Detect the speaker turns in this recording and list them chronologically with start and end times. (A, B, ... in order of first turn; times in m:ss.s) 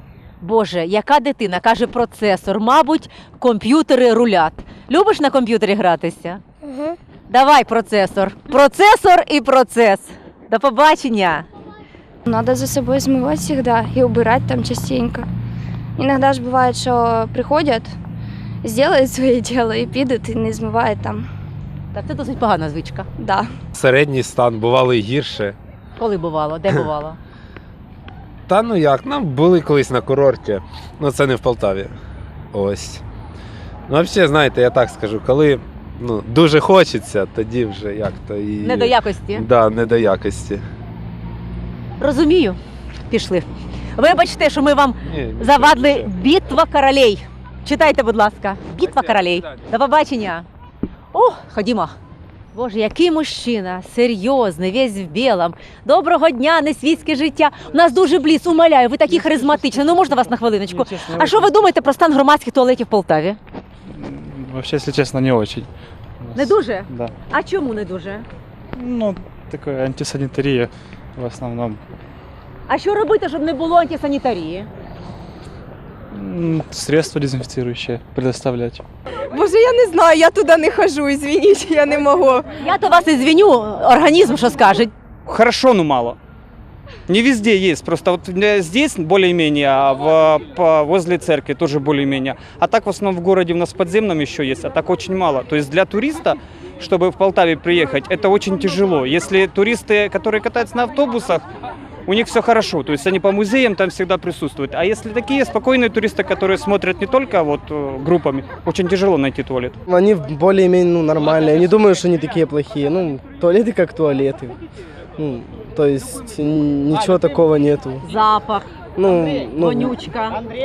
0:00.4-0:06.4 A
0:07.3-0:11.5 A
0:12.3-0:15.3 B
0:16.0-0:18.0 B
0:18.6-0:21.3 B
0:21.9-0:23.1 A
0:23.2-0:23.5 B
0:23.7-0:25.6 C
0:26.0-0:27.2 A
0:28.5-0:31.9 C
0:32.5-0:33.0 C
0:33.9-0:40.6 C
0:38.6-0:39.5 A
0:42.0-0:50.5 A
0:45.1-0:46.1 C
0:51.1-0:52.0 A
0:52.5-1:03.4 A
0:59.3-0:59.6 D
1:00.7-1:01.5 D
1:04.0-1:05.7 D
1:06.3-1:07.1 D
1:06.3-1:08.2 A
1:08.8-1:11.8 D
1:12.7-1:14.7 A
1:16.1-1:18.8 D
1:19.3-1:22.4 E
1:22.6-1:24.9 A
1:25.3-1:26.2 F
1:27.1-1:41.4 F
1:42.1-1:49.8 F
1:49.9-1:54.6 G
1:55.2-1:58.0 G
1:58.0-1:58.7 A
1:59.0-2:00.0 G
1:59.6-2:00.4 A